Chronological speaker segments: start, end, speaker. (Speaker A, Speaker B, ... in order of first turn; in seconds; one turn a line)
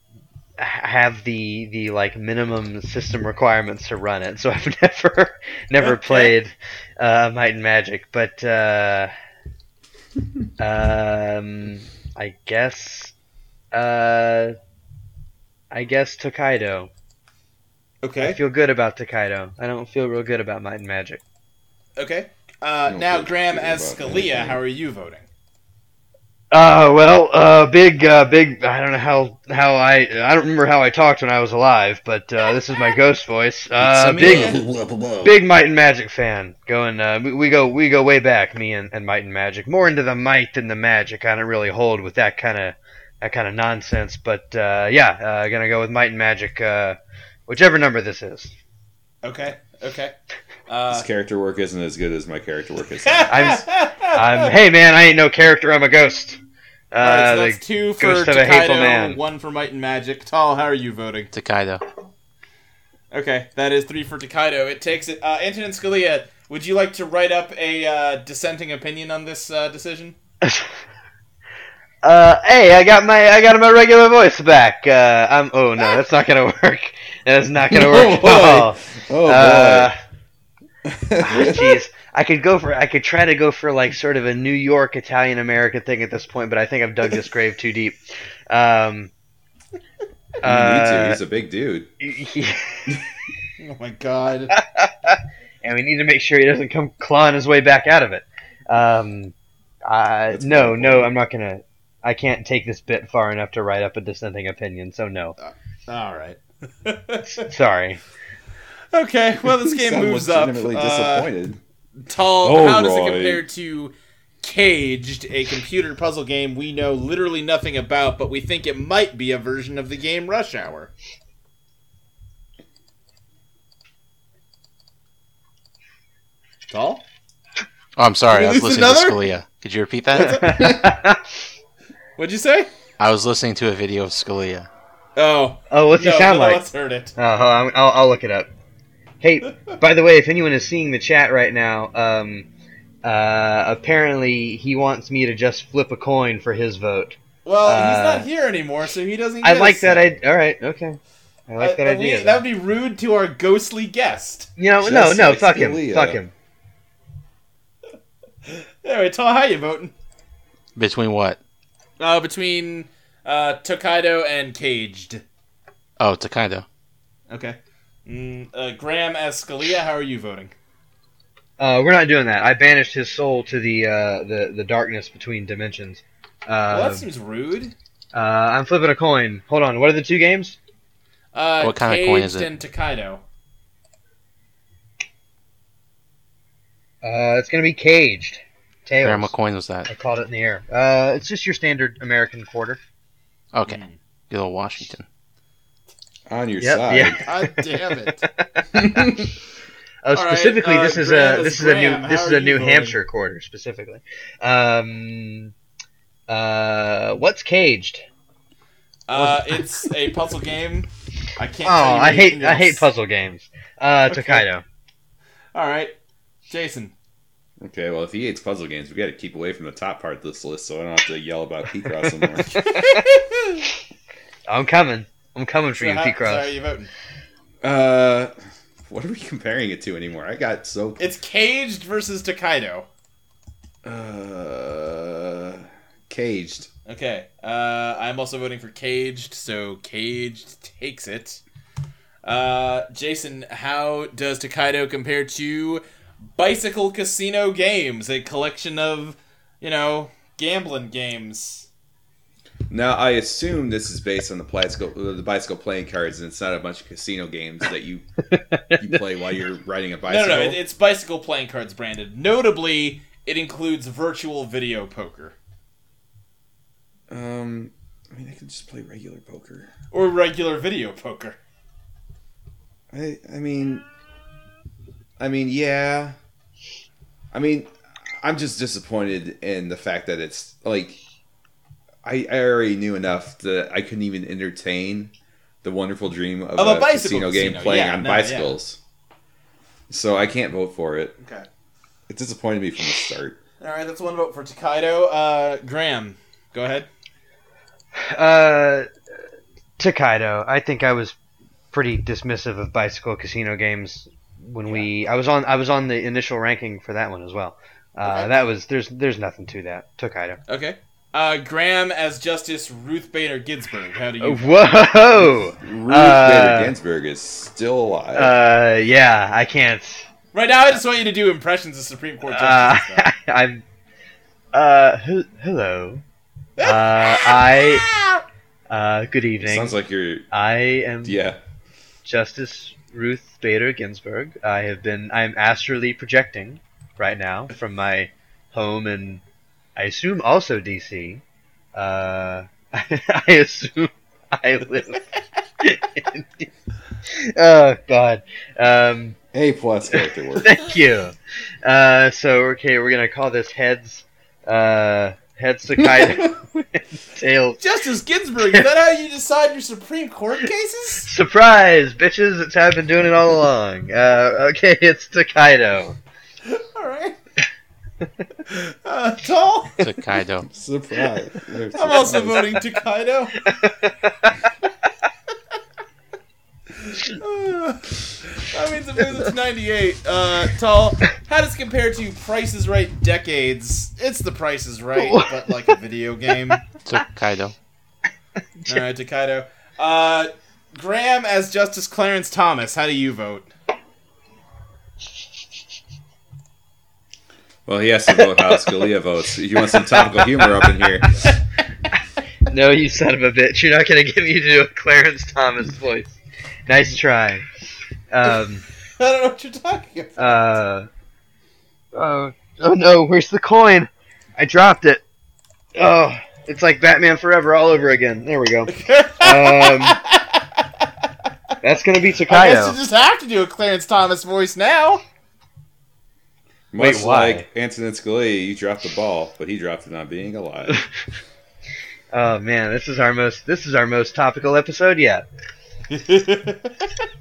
Speaker A: 0.6-9.1
Speaker B: 5.8-6.3
Speaker A: 10.6-13.1
Speaker A: 13.7-14.6
Speaker A: 15.7-16.9
Speaker B: 18.0-18.4
Speaker A: 18.2-21.2
Speaker B: 22.0-25.3
Speaker C: 22.9-24.6
Speaker A: 26.5-34.6
Speaker D: 33.8-34.9
Speaker B: 34.2-34.6
Speaker A: 35.2-48.5
Speaker B: 49.2-50.1
Speaker B: 50.7-51.1
Speaker C: 50.9-53.6
Speaker B: 53.0-54.5
Speaker A: 53.3-59.2
Speaker B: 57.0-61.3
Speaker D: 61.3-61.8
Speaker B: 63.1-70.2
Speaker A: 70.4-70.7
Speaker A: 72.0-80.0
Speaker C: 77.7-79.9
Speaker C: 80.8-81.8
Speaker A: 81.2-89.1
Speaker C: 90.4-91.9
Speaker A: 90.4-91.2
Speaker A: 92.0-93.0
Speaker B: 93.6-94.5
Speaker A: 94.5-105.4
Speaker C: 100.3-101.1
Speaker B: 105.4-107.5
Speaker A: 107.4-108.0
Speaker B: 108.9-111.3
Speaker C: 109.4-111.6
Speaker B: 112.0-120.9
Speaker C: 112.4-113.4
Speaker B: 126.7-127.0
Speaker D: 128.0-130.5
Speaker B: 128.3-129.2
Speaker B: 130.1-130.7
Speaker A: 130.2-131.2
Speaker B: 132.2-132.7
Speaker D: 133.0-134.7
Speaker B: 135.2-137.1
Speaker A: 135.7-136.7
Speaker A: 137.2-138.5
Speaker A: 139.2-142.5
Speaker A: 143.0-148.3
Speaker B: 147.4-150.1
Speaker A: 149.4-152.4
Speaker B: 151.6-154.5
Speaker A: 154.6-156.3
Speaker C: 154.8-156.2
Speaker B: 158.5-159.9
Speaker D: 160.8-161.4
Speaker B: 162.0-165.2
Speaker D: 166.0-166.7
Speaker B: 167.3-170.5
Speaker A: 171.6-177.1
Speaker B: 176.7-177.7
Speaker A: 178.1-180.6
Speaker B: 181.3-183.2
Speaker D: 181.6-182.5
Speaker A: 187.0-189.3
Speaker D: 189.0-189.9
Speaker A: 189.9-192.8
Speaker D: 193.5-195.1
Speaker B: 193.7-194.0
Speaker C: 196.3-197.2
Speaker A: 196.6-197.6
Speaker B: 197.2-198.3
Speaker A: 198.2-199.2
Speaker C: 198.7-199.3
Speaker A: 200.0-205.5
Speaker B: 200.1-203.0
Speaker A: 206.3-208.1
Speaker B: 209.1-212.9
Speaker A: 209.2-209.8
Speaker A: 211.6-214.6
Speaker B: 214.1-214.4
Speaker B: 215.5-216.0
Speaker B: 216.5-216.9
Speaker C: 217.6-222.7
Speaker B: 222.6-223.4
Speaker A: 222.7-223.0
Speaker A: 224.5-226.6
Speaker B: 225.8-226.9
Speaker C: 227.6-228.3
Speaker C: 228.9-231.0
Speaker B: 231.0-232.9
Speaker C: 233.8-236.7
Speaker B: 236.9-241.4
Speaker B: 242.2-245.8
Speaker B: 246.3-251.7
Speaker C: 252.7-258.1
Speaker A: 258.3-259.0
Speaker C: 258.8-260.6
Speaker B: 260.1-265.4
Speaker C: 267.1-269.7
Speaker B: 269.9-271.4
Speaker C: 272.9-273.8
Speaker C: 275.2-276.1
Speaker C: 277.3-281.0
Speaker C: 282.0-285.1
Speaker C: 285.6-288.8
Speaker B: 286.6-288.6
Speaker C: 289.9-291.1
Speaker B: 291.2-291.5
Speaker C: 292.1-293.4
Speaker B: 293.6-296.9
Speaker A: 297.9-298.9
Speaker A: 299.8-301.2
Speaker A: 301.7-310.4
Speaker B: 308.1-308.3
Speaker B: 310.5-314.6
Speaker A: 314.2-316.7
Speaker C: 315.3-318.3
Speaker A: 318.1-320.1
Speaker B: 320.3-323.1
Speaker A: 322.2-323.6
Speaker A: 324.5-326.0
Speaker B: 326.6-328.2
Speaker A: 326.6-327.9
Speaker A: 328.7-329.8
Speaker C: 329.4-330.3
Speaker A: 330.3-331.2
Speaker C: 331.0-331.4
Speaker A: 332.1-339.2
Speaker A: 339.8-341.2
Speaker A: 341.7-345.0
Speaker A: 345.6-346.5
Speaker A: 347.1-349.2
Speaker C: 349.3-350.6
Speaker A: 349.9-357.6
Speaker C: 355.8-356.4
Speaker B: 357.6-361.1
Speaker A: 358.4-358.7
Speaker A: 361.1-366.0
Speaker B: 366.4-367.2
Speaker B: 368.5-369.8
Speaker D: 369.8-370.5
Speaker C: 370.5-372.6
Speaker B: 371.7-373.5
Speaker A: 371.8-372.5
Speaker A: 373.4-374.4
Speaker B: 376.8-386.6
Speaker A: 385.0-385.3
Speaker D: 386.8-387.5
Speaker B: 388.7-393.5
Speaker C: 397.7-401.2
Speaker A: 399.9-401.1
Speaker A: 402.5-406.2
Speaker A: 406.7-407.5
Speaker A: 408.1-408.6
Speaker B: 409.0-410.4
Speaker A: 410.2-410.9
Speaker A: 411.9-415.0
Speaker A: 415.8-420.0
Speaker B: 418.7-420.6
Speaker A: 421.6-422.8
Speaker B: 422.3-425.0
Speaker C: 426.7-430.8
Speaker A: 426.8-427.5
Speaker A: 432.1-435.3
Speaker B: 435.9-436.8